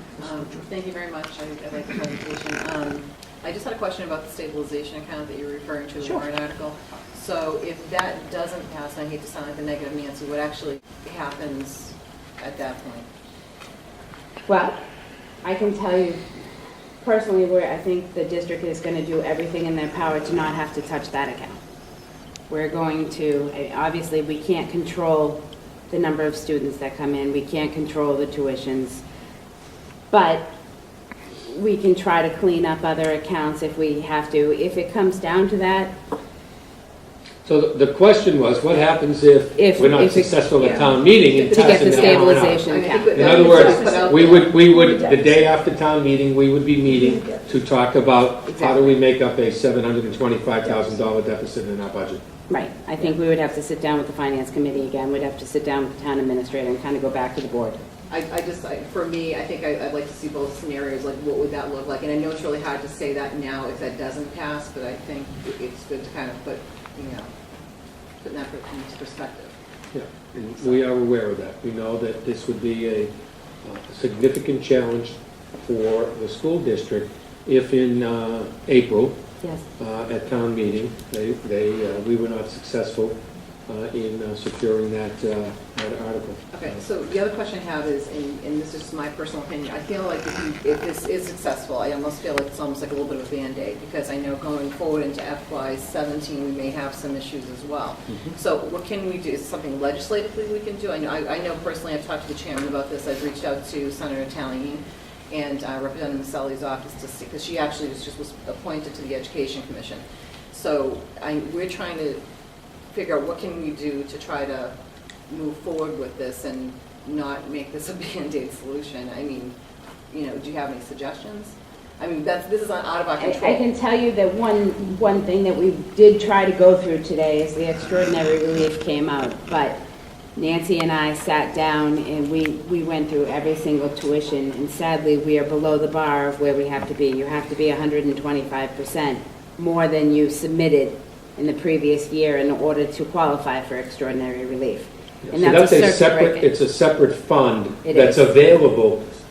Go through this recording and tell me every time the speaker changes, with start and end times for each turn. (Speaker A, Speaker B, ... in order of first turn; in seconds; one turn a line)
Speaker A: 0.1-13.1
Speaker B: 14.5-14.8
Speaker B: 15.4-16.2
Speaker B: 17.0-21.6
Speaker B: 22.5-29.0
Speaker B: 30.1-30.5
Speaker B: 31.4-36.0
Speaker C: 37.4-52.2
Speaker B: 39.5-41.0
Speaker A: 41.1-44.9
Speaker B: 41.5-44.4
Speaker B: 48.5-49.0
Speaker B: 52.5-57.8
Speaker A: 58.1-67.3
Speaker A: 68.2-69.5
Speaker C: 69.9-73.1
Speaker C: 73.6-79.2
Speaker C: 79.8-83.2
Speaker C: 83.7-86.6
Speaker A: 86.5-112.2
Speaker A: 112.9-114.7
Speaker A: 115.3-119.5
Speaker A: 120.1-123.6
Speaker B: 123.2-129.8
Speaker B: 130.3-146.5
Speaker C: 145.2-149.1
Speaker B: 147.8-148.3